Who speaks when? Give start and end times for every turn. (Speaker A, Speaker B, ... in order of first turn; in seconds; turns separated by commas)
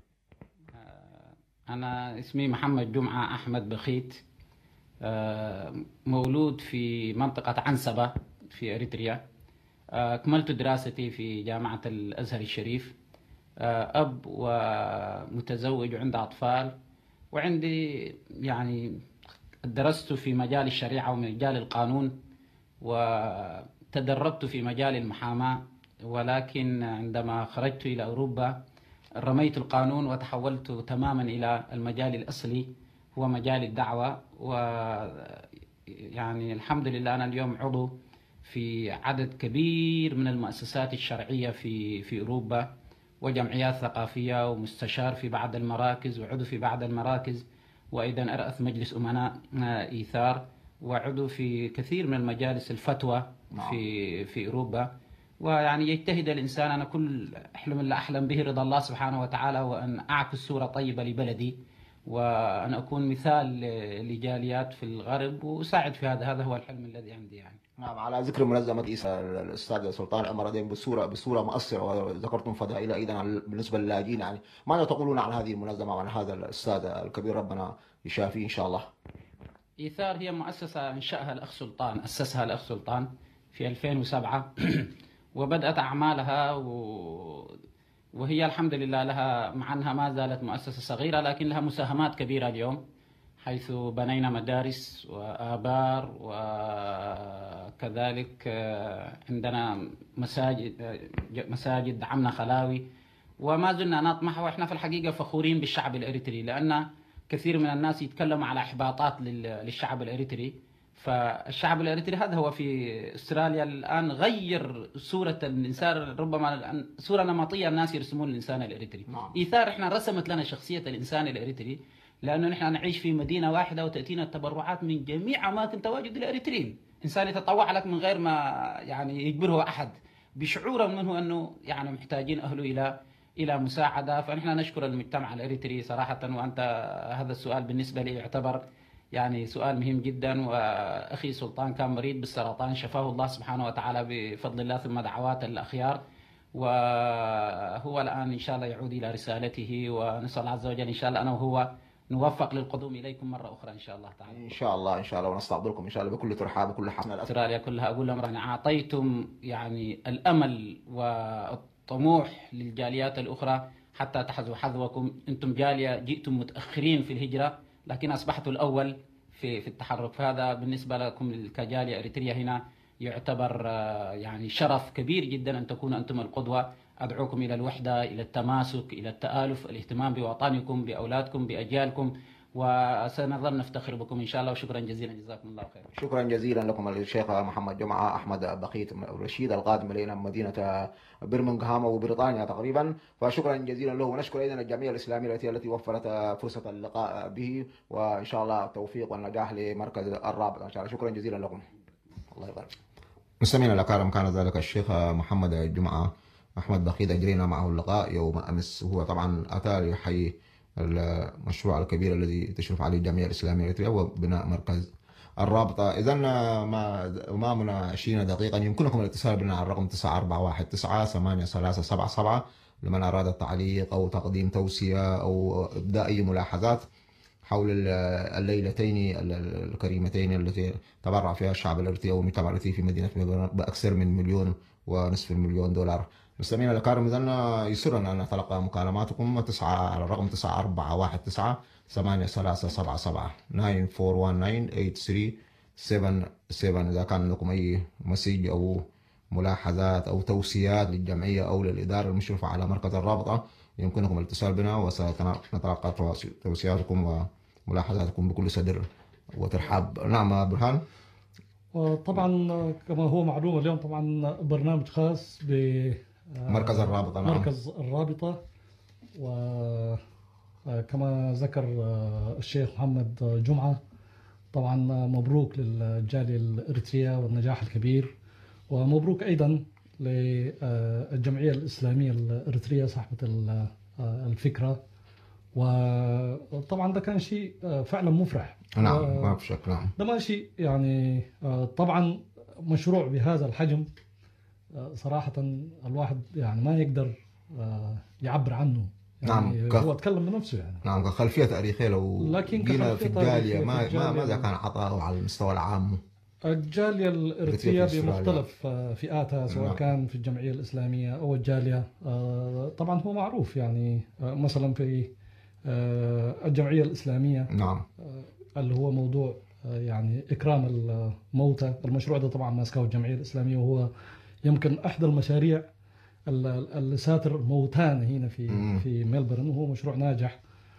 Speaker A: 0.8-4.2, Speaker A: 5.0-9.2, Speaker A: 9.9-12.9, Speaker A: 13.6-16.7, Speaker A: 17.3-19.0, Speaker A: 19.6-22.1, Speaker A: 22.8-28.5, Speaker A: 29.2-37.9, Speaker A: 38.4-42.7, Speaker A: 43.2-54.9, Speaker B: 53.5-53.8, Speaker A: 55.4-61.5, Speaker A: 62.1-67.6, Speaker B: 67.8-78.9, Speaker A: 79.8-87.6, Speaker A: 88.2-92.8, Speaker A: 93.4-102.8, Speaker A: 103.4-138.6, Speaker A: 139.1-146.0, Speaker A: 146.6-154.4, Speaker B: 154.3-157.3, Speaker A: 157.3-185.9, Speaker B: 185.9-201.7, Speaker B: 202.3-202.7, Speaker B: 203.4-226.8, Speaker B: 227.5-260.8, Speaker C: 261.7-268.4, Speaker B: 266.5-267.5, Speaker C: 269.1-270.0, Speaker C: 270.7-273.8, Speaker C: 274.5-278.1, Speaker C: 278.7-284.8, Speaker C: 285.6-289.4, Speaker B: 288.8-289.9, Speaker C: 290.0-293.9, Speaker C: 294.7-300.8, Speaker B: 299.3-299.9, Speaker B: 300.8-306.0, Speaker C: 302.2-304.5, Speaker C: 306.5-315.1, Speaker B: 307.4-308.4, Speaker B: 309.5-309.8, Speaker C: 315.7-317.5, Speaker B: 317.5-317.9, Speaker C: 318.0-323.9, Speaker C: 324.4-325.6, Speaker C: 326.3-330.4, Speaker B: 328.5-328.8